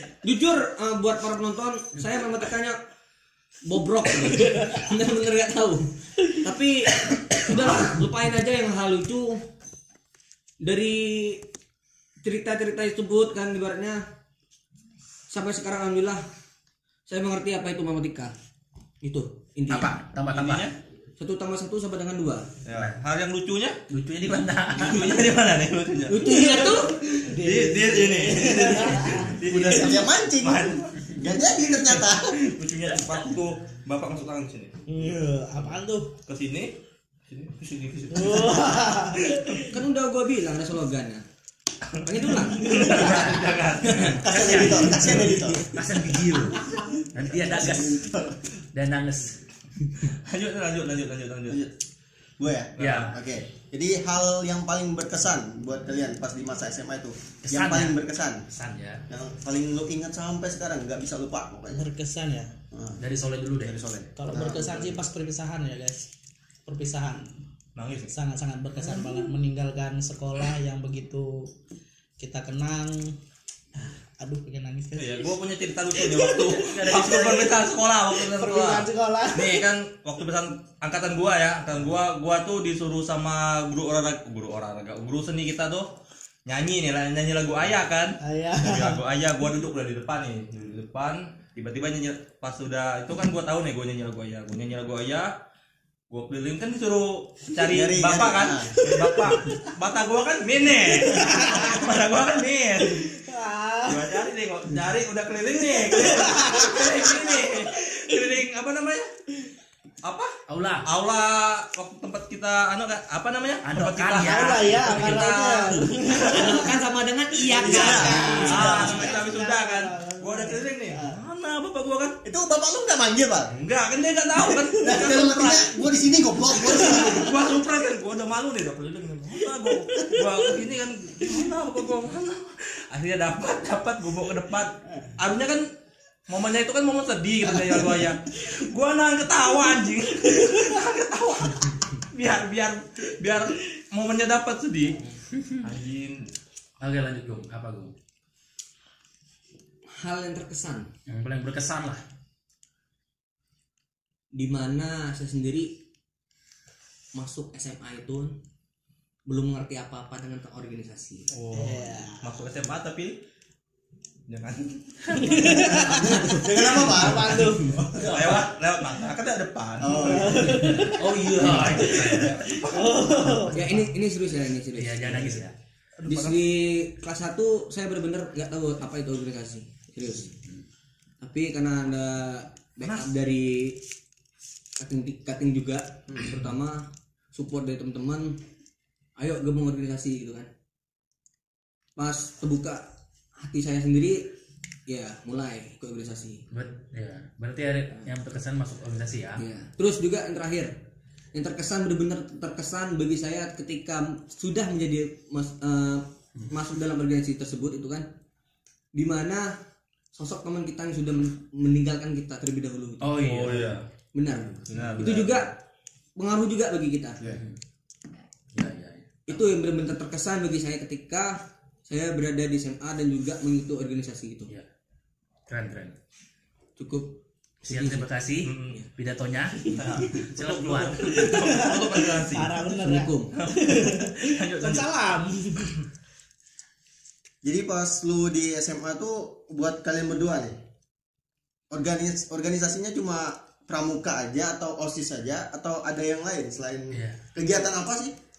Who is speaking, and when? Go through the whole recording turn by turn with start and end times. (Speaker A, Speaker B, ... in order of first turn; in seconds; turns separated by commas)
Speaker A: 0.2-2.8, Speaker A: 3.6-9.4, Speaker A: 10.6-11.4, Speaker A: 12.2-14.0, Speaker A: 15.3-16.2, Speaker A: 17.1-18.3, Speaker A: 19.0-19.9, Speaker B: 19.7-20.7, Speaker C: 20.2-20.7, Speaker A: 21.2-22.5, Speaker C: 22.6-26.2, Speaker B: 22.7-23.0, Speaker B: 23.9-25.4, Speaker A: 26.1-26.9, Speaker D: 26.2-29.4, Speaker C: 27.2-31.1, Speaker E: 29.4-32.5, Speaker C: 31.7-34.8, Speaker D: 34.9-36.1, Speaker C: 36.3-36.7, Speaker C: 37.3-39.4, Speaker D: 38.1-39.7, Speaker A: 39.7-41.2, Speaker C: 42.0-44.3, Speaker A: 42.0-44.2, Speaker B: 43.0-43.4, Speaker B: 44.1-49.4, Speaker E: 44.1-45.6, Speaker A: 45.1-46.2, Speaker E: 47.3-48.3, Speaker C: 50.1-51.6, Speaker E: 52.4-58.4, Speaker C: 52.8-53.2, Speaker B: 52.8-53.2, Speaker B: 57.4-58.0, Speaker B: 58.5-59.0, Speaker E: 59.1-61.9, Speaker D: 61.7-62.5, Speaker E: 62.7-63.0, Speaker B: 63.0-64.0, Speaker E: 63.6-65.0, Speaker D: 64.2-66.1, Speaker D: 66.7-67.3, Speaker C: 67.8-68.1, Speaker D: 68.1-71.5, Speaker D: 72.2-73.1, Speaker D: 73.7-75.4, Speaker C: 75.0-85.9, Speaker D: 75.9-77.6, Speaker B: 76.7-77.3, Speaker D: 78.1-79.6, Speaker C: 86.5-95.3, Speaker D: 88.2-89.0, Speaker C: 96.1-103.1, Speaker E: 97.7-98.7, Speaker D: 98.8-99.4, Speaker D: 100.9-101.9, Speaker D: 103.0-104.2, Speaker C: 103.9-109.1, Speaker D: 105.9-107.6, Speaker C: 110.0-116.7, Speaker B: 110.5-110.9, Speaker B: 113.6-115.8, Speaker D: 114.2-116.7, Speaker A: 116.2-118.7, Speaker E: 117.5-119.2, Speaker D: 117.6-121.2, Speaker C: 118.5-122.2, Speaker E: 122.2-123.5, Speaker C: 123.5-125.8, Speaker E: 124.7-127.4, Speaker C: 126.5-135.7, Speaker C: 136.3-145.0, Speaker E: 137.4-138.1, Speaker B: 145.3-145.6, Speaker C: 145.6-146.3, Speaker B: 146.8-147.9, Speaker A: 149.9-150.9, Speaker B: 151.1-152.0, Speaker A: 154.3-155.7, Speaker A: 157.1-158.3, Speaker A: 159.3-161.3, Speaker C: 161.3-163.2, Speaker D: 161.5-162.4, Speaker C: 164.3-166.0, Speaker D: 165.1-167.9, Speaker E: 165.8-168.5, Speaker A: 166.1-166.4, Speaker C: 167.9-170.4, Speaker E: 169.8-170.7, Speaker D: 170.1-173.6, Speaker B: 170.5-172.4, Speaker C: 171.4-172.9, Speaker B: 173.3-173.8, Speaker A: 173.5-175.4, Speaker B: 174.8-175.5, Speaker D: 176.0-176.4, Speaker A: 176.1-180.3, Speaker A: 181.2-183.8, Speaker A: 184.8-188.4, Speaker A: 189.2-190.5, Speaker A: 192.0-192.8, Speaker A: 193.4-194.3, Speaker A: 194.9-196.4, Speaker B: 196.5-199.4, Speaker A: 199.4-200.7, Speaker A: 201.3-208.1, Speaker A: 208.9-209.5, Speaker A: 210.1-215.6, Speaker B: 213.0-213.8, Speaker C: 213.4-213.8, Speaker C: 214.7-215.4, Speaker A: 216.2-217.2, Speaker B: 217.2-217.6, Speaker B: 218.5-219.4, Speaker A: 219.3-224.5, Speaker B: 225.5-225.9, Speaker A: 226.8-228.1, Speaker B: 227.7-231.2, Speaker C: 228.4-228.8, Speaker C: 229.7-232.5, Speaker D: 231.1-235.7, Speaker A: 232.8-233.3, Speaker C: 233.3-234.9, Speaker E: 237.4-240.5, Speaker E: 241.7-248.1, Speaker B: 246.9-247.2